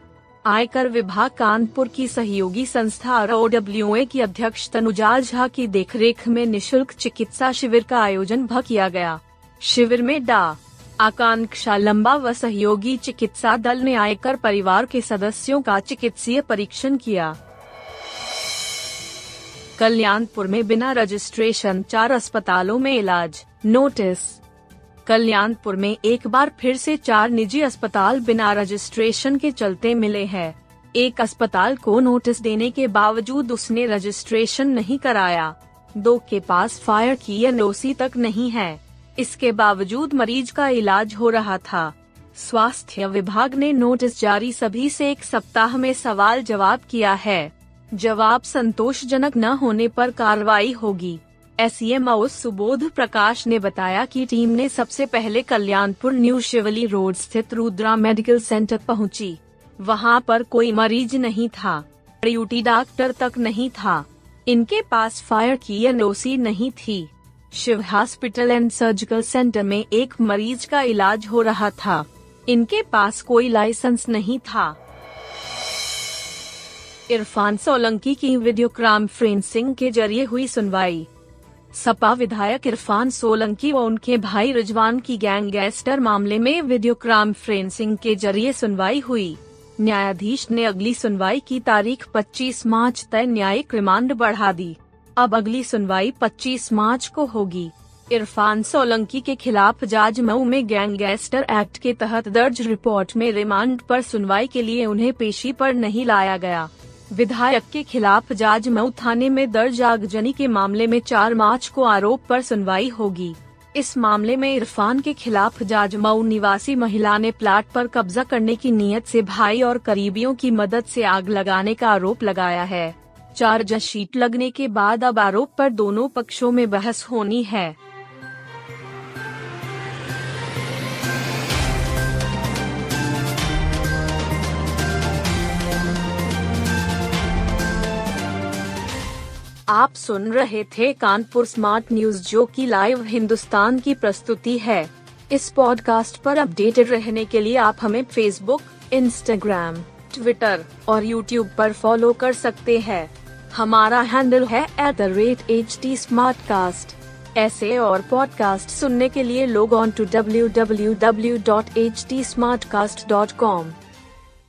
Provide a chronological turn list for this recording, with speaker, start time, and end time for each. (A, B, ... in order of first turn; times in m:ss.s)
0:00.4-0:17.4 A
0:19.8-0:24.4 A
0:25.0-1:14.8 A
1:17.1-1:21.1 A
1:21.7-2:07.8 A
2:19.7-2:43.8 A